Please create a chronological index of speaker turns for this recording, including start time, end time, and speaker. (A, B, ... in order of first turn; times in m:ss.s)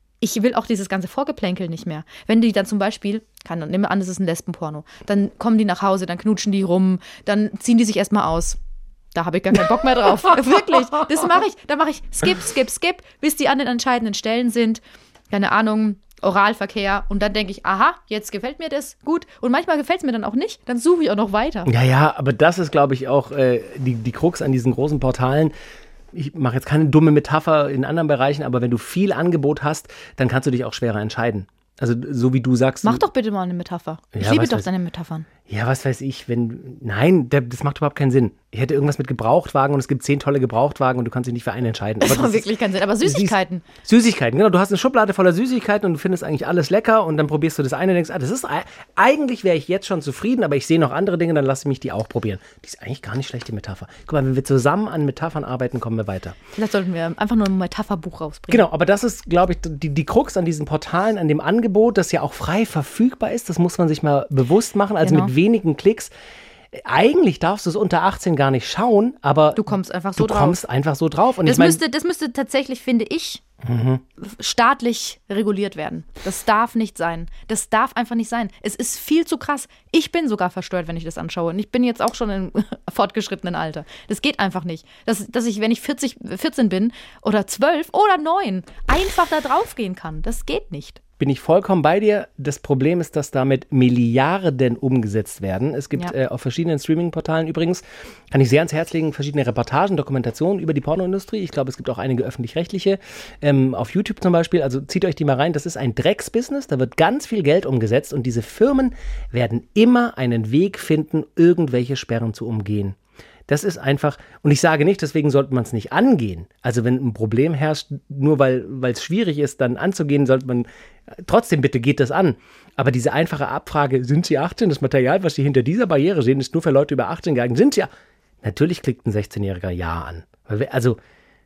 0:00.2-0:08.6 A
0:09.1-0:21.7 A
0:21.7-0:25.5 B
0:26.1-0:33.0 B
0:32.8-0:35.3 A
0:34.1-0:34.7 B
0:35.5-0:42.4 B
0:42.0-0:43.6 A
0:43.0-0:56.4 B
0:56.6-0:58.7 A
0:58.5-1:06.1 B
1:05.0-1:05.3 A
1:06.7-1:11.8 B
1:09.6-1:10.6 A
1:11.4-1:13.4 A
1:13.6-1:14.0 B
1:14.2-1:31.0 A
1:31.2-1:53.0 B
1:53.5-2:07.9 B
2:08.4-2:11.0 B